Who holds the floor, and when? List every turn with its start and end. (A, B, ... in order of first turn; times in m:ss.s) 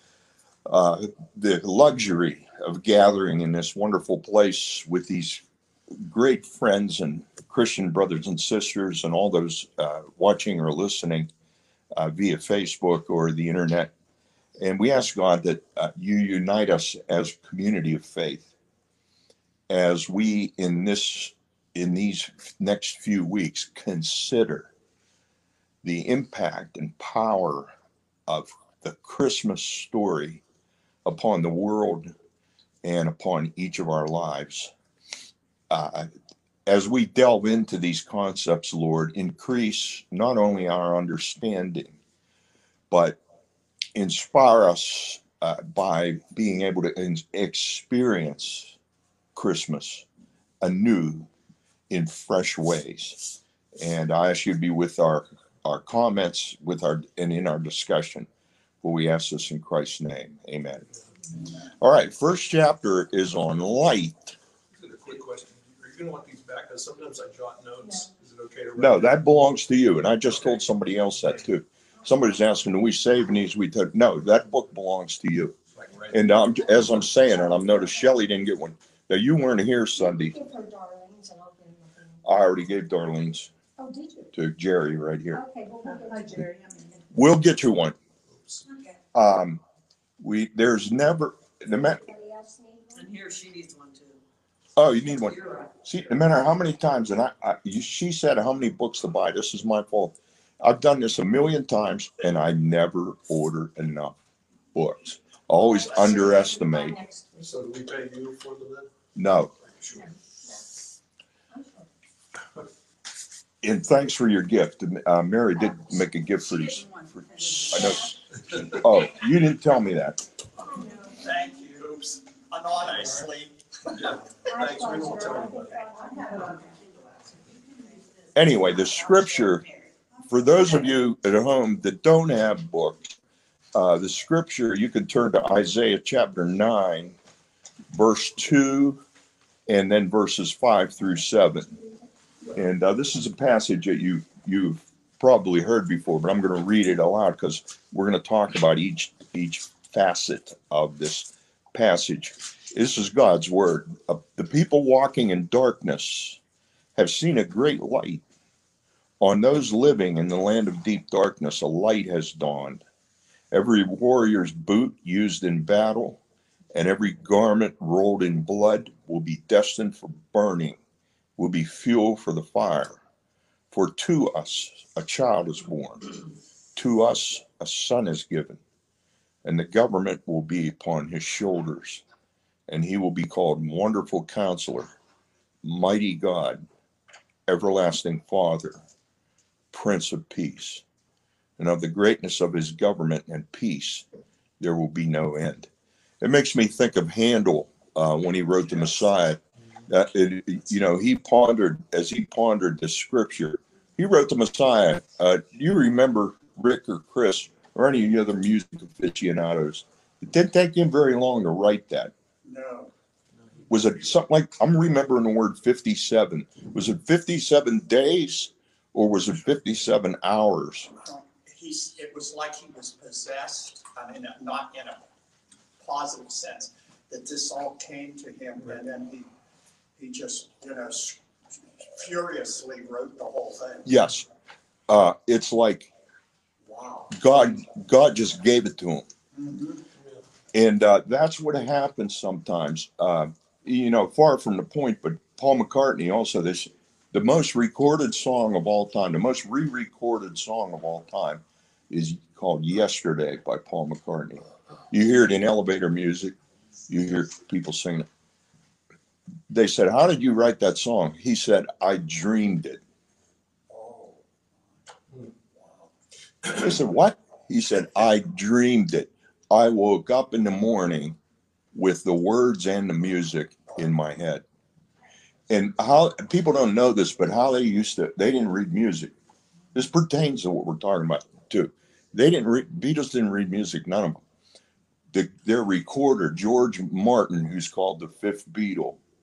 0:00.7-0:05.4 A
0:06.0-0:11.3 A
0:12.0-0:13.9 A
0:14.6-0:18.5 A
0:19.7-0:24.7 A
0:25.8-0:27.7 A
0:28.3-0:30.4 A
0:31.0-0:32.1 A
0:32.8-0:34.7 A
0:35.7-0:36.1 A
0:36.7-0:42.0 A
0:42.9-0:43.2 A
0:44.0-0:48.7 A
0:49.3-0:50.0 A
0:50.6-0:51.3 A
0:51.9-0:58.3 A
0:58.8-1:00.9 A
1:01.8-1:04.4 A
1:04.8-1:09.2 B
1:08.8-1:15.6 A
1:15.8-1:16.3 B
1:16.1-1:20.3 A
1:20.3-1:22.2 C
1:22.2-1:23.5 A
1:23.8-1:24.3 C
1:24.3-1:25.4 A
1:25.3-1:26.5 C
1:26.4-1:26.9 D
1:27.1-1:28.0 A
1:28.3-1:28.6 B
1:29.1-1:29.6 A
1:30.2-1:32.0 A
1:31.9-1:33.1 C
1:32.9-1:34.2 D
1:34.8-1:44.2 A
1:35.2-1:35.7 D
1:44.8-1:47.0 A
1:46.0-1:47.4 C
1:47.4-1:48.9 B
1:49.1-1:49.5 A
1:49.6-1:50.1 B
1:53.6-2:00.2 A
2:01.1-2:03.6 E
2:03.9-2:05.7 B
2:04.5-2:06.5 C
2:05.0-2:05.4 E
2:08.3-2:09.6 A
2:10.3-2:13.2 A
2:13.8-2:17.2 A
2:17.9-2:19.0 A
2:19.7-2:21.8 A
2:22.5-2:36.4 A
2:37.0-2:38.2 A
2:39.2-2:42.8 A
2:43.5-2:46.2 A
2:46.7-2:50.8 A
2:51.4-2:53.0 A
2:53.7-2:56.0 A
2:56.8-2:58.6 A
2:59.4-3:02.0 A
3:02.7-3:04.9 A
3:05.6-3:06.7 A
3:07.5-3:08.8 A
3:09.7-3:10.8 A
3:11.6-3:14.0 A
3:14.6-3:15.7 A
3:16.2-3:32.1 A
3:32.4-3:32.9 E
3:33.7-3:40.9 A
3:41.0-3:45.0 E
3:45.8-3:49.3 E
3:50.0-3:53.9 E
3:53.9-3:54.3 A
3:54.9-3:55.9 A
3:56.6-3:57.1 E
3:57.1-3:59.1 A
3:59.3-3:59.8 E
4:00.5-4:16.4 A
4:16.9-4:18.1 A
4:19.5-4:22.8 A
4:23.7-4:24.2 E
4:25.5-4:25.8 E
4:26.5-4:31.2 A
4:31.7-4:34.4 A
4:35.5-4:39.1 A
4:39.7-4:44.2 A
4:45.1-4:49.0 A